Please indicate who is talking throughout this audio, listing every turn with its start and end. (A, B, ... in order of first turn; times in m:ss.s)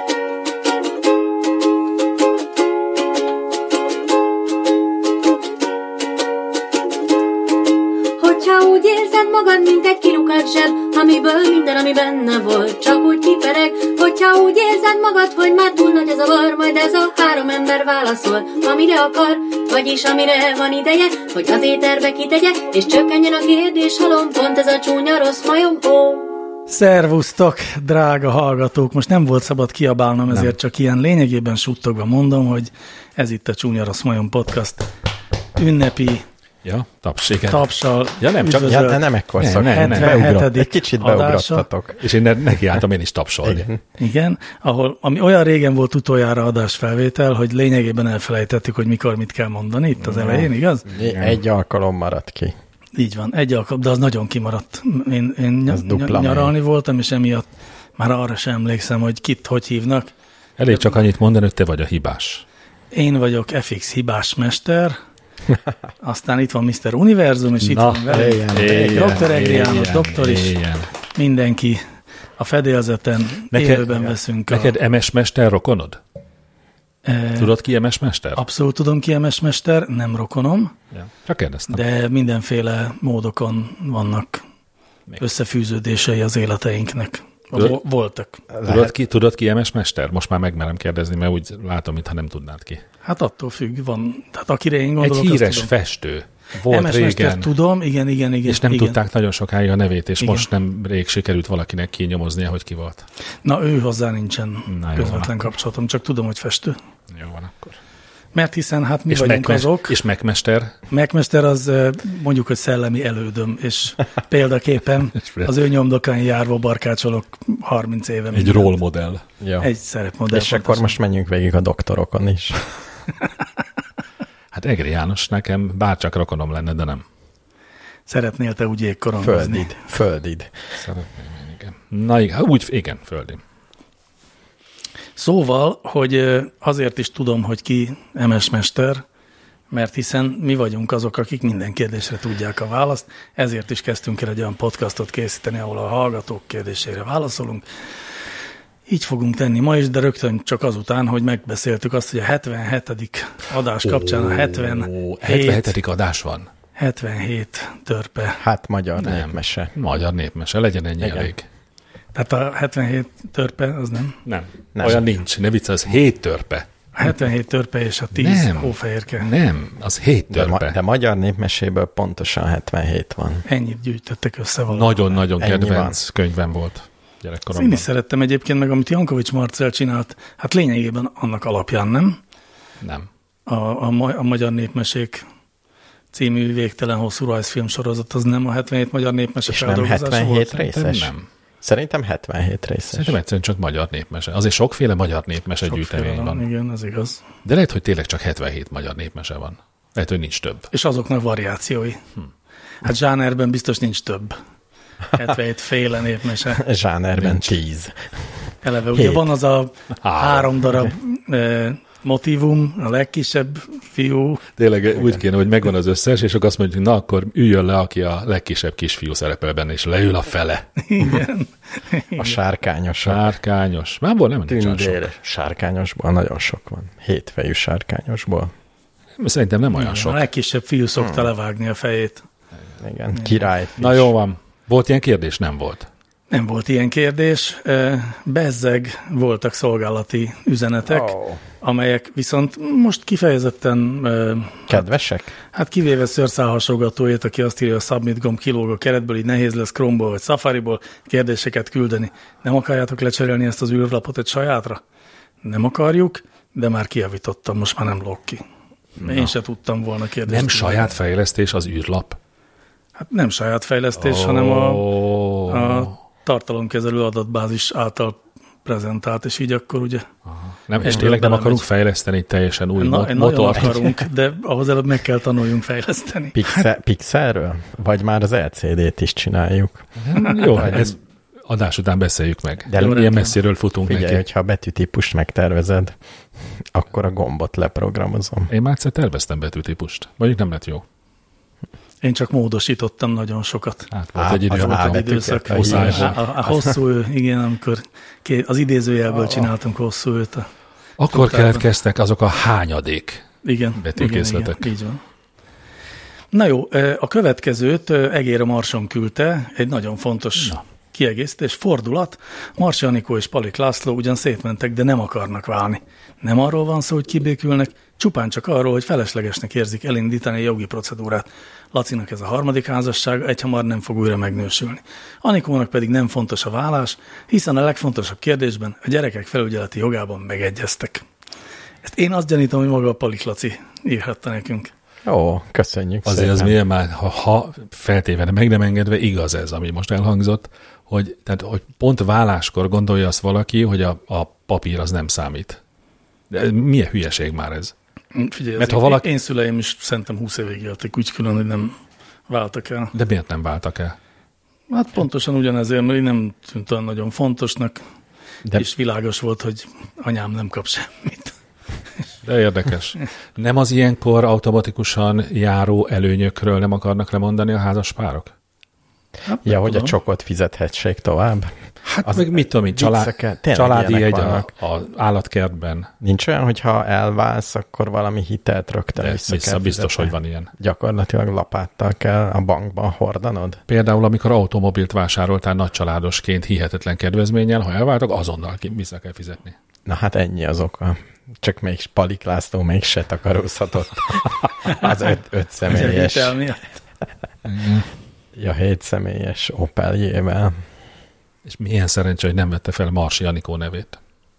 0:08.2-0:26.3 A
0:26.7-0:34.9 B
0:30.3-0:30.6 C
0:35.6-0:36.3 B
0:36.6-0:38.8 C
0:37.3-0:39.0 B
0:38.6-0:42.0 D
0:39.4-0:40.2 C
0:39.6-0:41.7 B
0:42.0-0:43.7 C
0:43.4-0:43.8 D
0:44.0-0:50.9 B
0:50.1-0:51.4 C
0:50.9-0:52.5 D
0:53.0-1:00.1 B
0:55.7-0:56.6 D
1:00.6-1:02.4 C
1:02.9-1:05.0 B
1:06.0-1:10.6 B
1:07.6-1:10.9 C
1:08.1-1:09.2 D
1:11.1-1:11.8 B
1:12.4-1:14.7 B
1:13.5-1:16.0 C
1:17.0-1:17.6 B
1:17.4-1:18.4 C
1:18.4-1:20.8 B
1:20.9-1:21.8 C
1:21.7-1:24.4 B
1:25.2-1:28.4 B
1:28.5-1:29.0 D
1:28.6-1:32.8 C
1:33.0-1:35.7 B
1:35.0-1:37.5 C
1:36.7-1:39.0 B
1:38.5-1:43.0 C
1:43.4-1:46.8 B
1:44.7-1:45.3 C
1:47.1-1:47.8 C
1:48.3-1:50.0 B
1:49.1-1:50.8 C
1:50.9-1:58.8 B
1:55.2-1:55.5 C
1:58.3-1:59.2 C
1:59.4-1:59.7 D
1:59.6-2:01.0 B
2:00.3-2:02.6 D
2:04.5-2:07.0 C
2:08.1-2:09.8 B
2:09.2-2:10.6 D
2:10.8-2:13.4 C
2:15.2-2:19.0 B
2:19.7-2:27.6 B
2:28.9-2:35.8 B
2:33.8-2:36.5 C
2:36.8-2:38.4 B
2:38.4-2:39.7 D
2:39.0-2:41.4 C
2:41.0-2:41.3 D
2:42.2-2:44.2 B
2:44.2-2:46.7 C
2:44.8-2:45.0 D
2:47.0-2:49.3 B
2:48.2-2:50.8 C
2:50.3-2:53.4 D
2:53.5-2:55.1 B
2:54.7-2:57.8 C
2:55.4-2:56.0 D
2:57.5-3:02.2 B
3:02.8-3:03.1 C
3:03.5-3:05.2 B
3:06.1-3:10.6 B
3:09.5-3:13.2 D
3:10.6-3:11.2 C
3:12.9-3:16.4 C
3:15.7-3:17.2 B
3:17.4-3:20.7 C
3:20.7-3:22.0 B
3:22.8-3:24.4 B
3:25.1-3:26.6 B
3:26.5-3:28.3 D
3:27.2-3:27.5 C
3:28.6-3:34.4 B
3:28.9-3:29.3 D
3:30.0-3:30.6 C
3:34.6-3:40.6 C
3:35.0-3:35.2 D
3:40.8-3:42.4 B
3:42.2-3:43.2 D
3:43.0-3:45.0 C
3:44.5-3:48.5 D
3:49.2-3:50.2 C
3:49.8-3:52.2 B
3:51.0-3:51.3 D
3:52.8-3:54.1 D
3:53.8-3:55.9 C
3:56.3-4:04.8 B
4:00.9-4:01.4 D
4:04.7-4:05.4 D
4:05.5-4:14.8 B
4:15.4-4:18.4 B
4:19.0-4:19.3 C
4:19.0-4:20.9 B
4:20.3-4:22.2 C
4:23.0-4:24.9 B
4:24.0-4:25.9 C
4:25.5-4:30.1 B
4:30.3-4:34.0 C
4:30.8-4:31.6 B
4:32.8-4:36.7 B
4:36.4-4:41.0 D
4:40.0-4:44.2 C
4:42.7-4:43.2 D
4:42.8-4:43.4 B
4:43.8-4:46.0 D
4:46.6-4:48.5 D
4:48.5-4:50.8 C
4:52.0-4:53.9 B
4:53.9-4:56.2 C
4:54.2-4:56.7 D
4:54.5-5:00.5 B
4:59.2-4:59.5 D
5:01.0-5:04.7 C
5:01.1-5:01.7 B
5:03.4-5:05.0 B
5:06.3-5:31.1 B
5:31.8-5:34.7 B
5:35.0-5:36.6 D
5:36.0-5:45.6 C
5:46.3-5:47.7 C
5:48.1-5:51.8 B
5:48.6-5:49.1 C
5:52.3-5:52.9 B
5:52.9-5:54.0 C
5:54.7-5:57.8 B
5:58.5-6:01.4 B
6:02.2-6:08.3 C
6:09.3-6:09.9 B
6:09.4-6:14.5 D
6:11.8-6:15.9 C
6:16.0-6:23.6 D
6:19.0-6:20.5 C
6:23.7-6:29.6 C
6:29.8-6:36.4 D
6:35.7-6:36.7 B
6:37.4-6:37.9 C
6:38.4-6:40.6 D
6:41.4-6:44.0 C